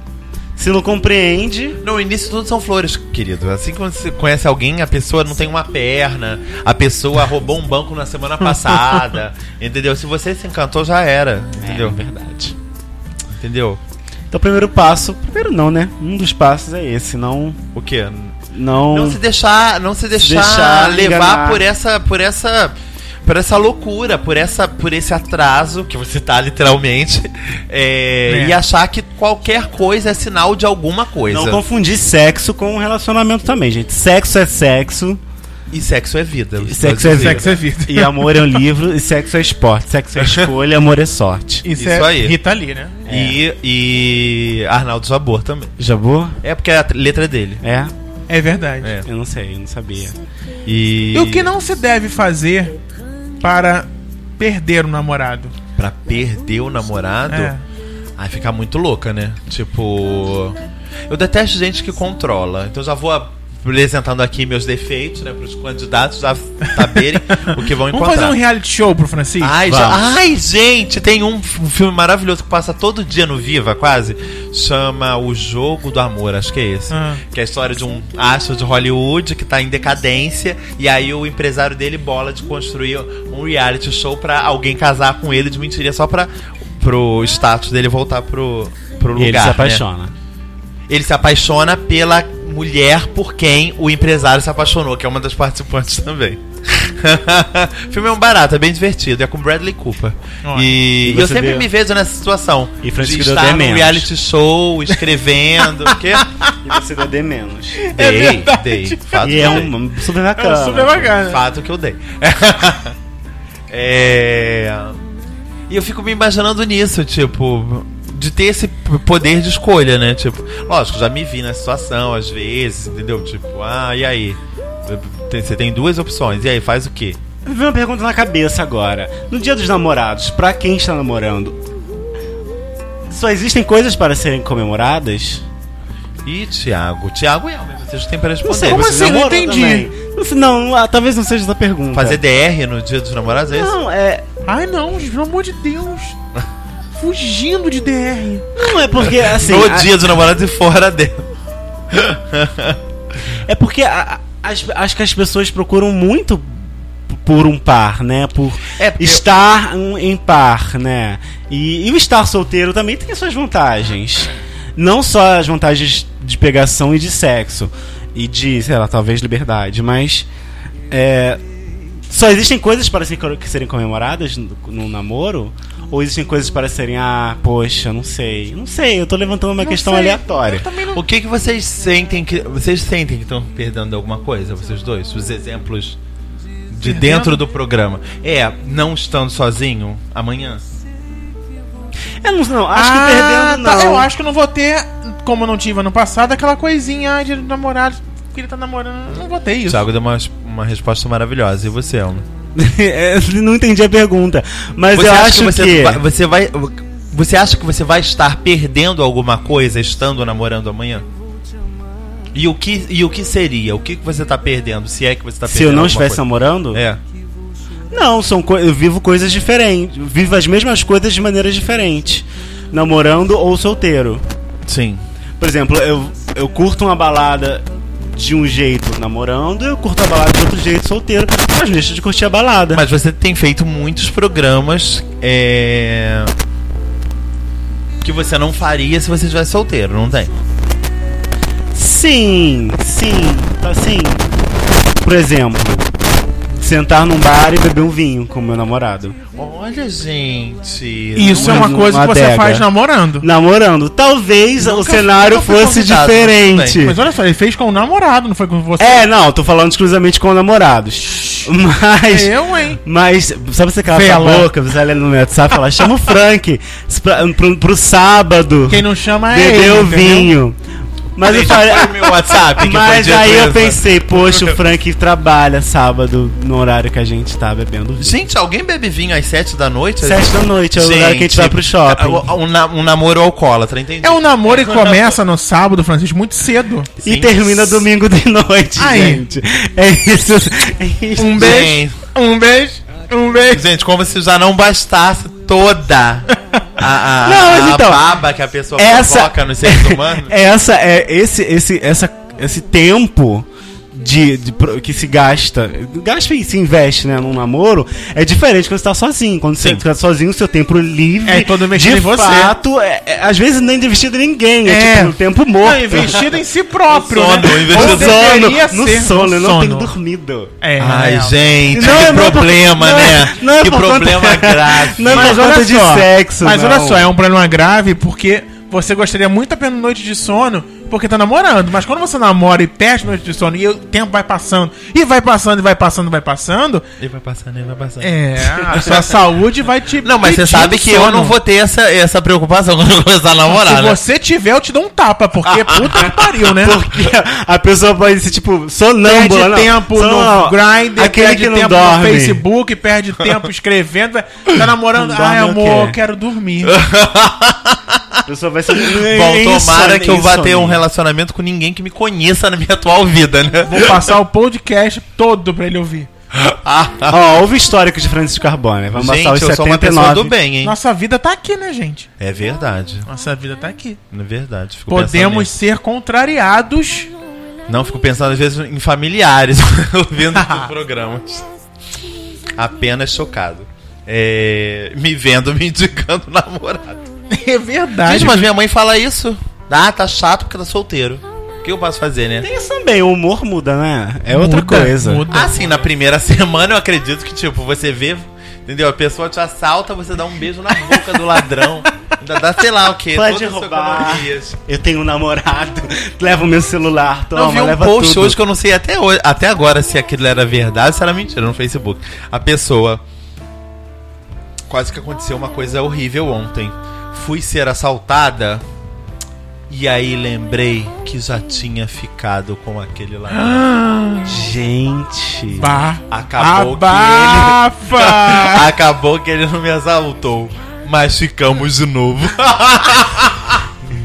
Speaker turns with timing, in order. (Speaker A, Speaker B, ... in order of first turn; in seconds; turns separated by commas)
Speaker A: 0.6-1.8, Speaker B: 1.8-12.0, Speaker C: 8.5-9.0, Speaker A: 11.6-12.6, Speaker B: 13.3-13.8, Speaker A: 14.3-17.6, Speaker B: 17.7-31.6, Speaker A: 18.5-19.2, Speaker A: 20.2-21.6, Speaker C: 28.3-28.6, Speaker A: 31.3-35.2, Speaker B: 35.7-37.6, Speaker A: 36.6-41.7, Speaker C: 37.0-38.6, Speaker B: 40.2-40.5, Speaker C: 41.6-43.0, Speaker B: 41.8-42.4, Speaker B: 43.1-45.7, Speaker A: 43.1-43.4, Speaker A: 45.8-46.4, Speaker B: 46.4-47.6, Speaker A: 47.6-47.9, Speaker C: 48.3-48.9, Speaker A: 49.0-50.2, Speaker B: 50.6-51.5, Speaker C: 51.1-52.7, Speaker C: 53.4-53.9, Speaker C: 54.4-55.5, Speaker B: 55.8-57.5, Speaker C: 57.3-57.6, Speaker B: 58.2-60.6, Speaker B: 61.1-68.4, Speaker C: 67.3-69.6, Speaker B: 69.4-89.8, Speaker A: 69.7-70.0, Speaker C: 76.9-77.2, Speaker A: 89.1-90.1, Speaker B: 90.9-106.3, Speaker C: 100.4-100.8, Speaker A: 101.0-101.7, Speaker A: 102.8-104.1, Speaker C: 105.8-106.5, Speaker A: 106.6-107.8, Speaker C: 107.8-109.7, Speaker B: 107.9-109.7, Speaker A: 109.2-111.2, Speaker C: 110.3-111.4, Speaker B: 111.2-113.0, Speaker B: 113.7-115.0, Speaker B: 115.7-127.2, Speaker A: 127.5-131.6, Speaker A: 133.1-135.4, Speaker B: 136.2-139.0, Speaker A: 138.4-142.2, Speaker C: 138.6-139.9, Speaker B: 141.9-143.7, Speaker A: 143.6-144.2, Speaker C: 144.5-146.2, Speaker C: 146.9-148.5, Speaker A: 148.6-149.9, Speaker B: 148.9-151.3, Speaker B: 151.9-152.8, Speaker A: 153.5-170.3, Speaker B: 158.8-159.2, Speaker A: 170.9-171.4, Speaker A: 172.1-180.7, Speaker C: 179.6-181.0, Speaker B: 180.9-186.0, Speaker B: 186.7-190.7, Speaker C: 186.8-187.4, Speaker A: 192.2-194.1, Speaker C: 192.7-199.8, Speaker B: 199.7-202.3, Speaker A: 202.6-206.0, Speaker B: 204.9-211.1, Speaker B: 212.3-217.0, Speaker A: 215.4-216.8, Speaker A: 217.9-224.2, Speaker B: 224.7-225.0, Speaker A: 225.4-232.8, Speaker B: 232.7-236.3, Speaker B: 238.0-240.3, Speaker A: 241.7-244.3, Speaker A: 245.0-245.9, Speaker A: 246.6-249.2, Speaker B: 249.4-251.8, Speaker C: 251.2-253.3, Speaker A: 251.3-252.7, Speaker A: 253.2-257.0, Speaker B: 254.6-256.9, Speaker C: 256.8-259.1, Speaker A: 258.8-270.6, Speaker C: 261.1-261.5, Speaker C: 262.1-262.8, Speaker C: 263.9-264.5, Speaker C: 268.7-270.4, Speaker A: 271.1-278.2, Speaker B: 271.2-274.6, Speaker B: 278.0-285.2, Speaker A: 280.0-282.3, Speaker C: 284.0-286.9, Speaker A: 287.0-291.6, Speaker B: 287.0-287.9, Speaker C: 288.8-289.2, Speaker C: 291.2-293.7, Speaker B: 291.4-292.0, Speaker B: 293.5-300.3, Speaker A: 297.2-298.1, Speaker A: 298.8-316.2, Speaker C: 311.3-312.6, Speaker C: 314.6-319.9, Speaker B: 316.9-318.3, Speaker A: 317.7-320.5, Speaker C: 320.6-322.4, Speaker B: 320.8-325.5, Speaker A: 321.7-327.1, Speaker C: 325.1-336.9, Speaker B: 337.0-339.2, Speaker C: 338.0-341.4, Speaker B: 340.0-344.0, Speaker C: 343.5-346.8, Speaker B: 345.5-346.0, Speaker A: 346.1-352.4, Speaker C: 349.0-356.8, Speaker A: 355.0-356.0, Speaker B: 356.6-358.2, Speaker A: 358.3-360.8, Speaker B: 358.7-364.1, Speaker C: 363.7-366.1, Speaker B: 366.3-367.2, Speaker A: 367.1-370.3, Speaker B: 368.9-370.8, Speaker C: 370.6-372.1, Speaker B: 372.2-373.1, Speaker C: 373.1-374.0, Speaker B: 374.1-375.5, Speaker C: 374.9-377.1, Speaker B: 377.7-381.5, Speaker C: 380.3-380.7, Speaker B: 382.6-387.0, Speaker C: 387.3-388.4, Speaker B: 388.0-392.5, Speaker A: 392.4-395.2, Speaker C: 394.3-395.8, Speaker B: 395.3-404.6, Speaker A: 403.1-408.4, Speaker B: 407.3-413.0, Speaker B: 414.7-418.6, Speaker B: 419.7-423.7, Speaker C: 423.4-424.2, Speaker A: 424.2-425.8, Speaker C: 425.6-428.7, Speaker B: 426.1-433.7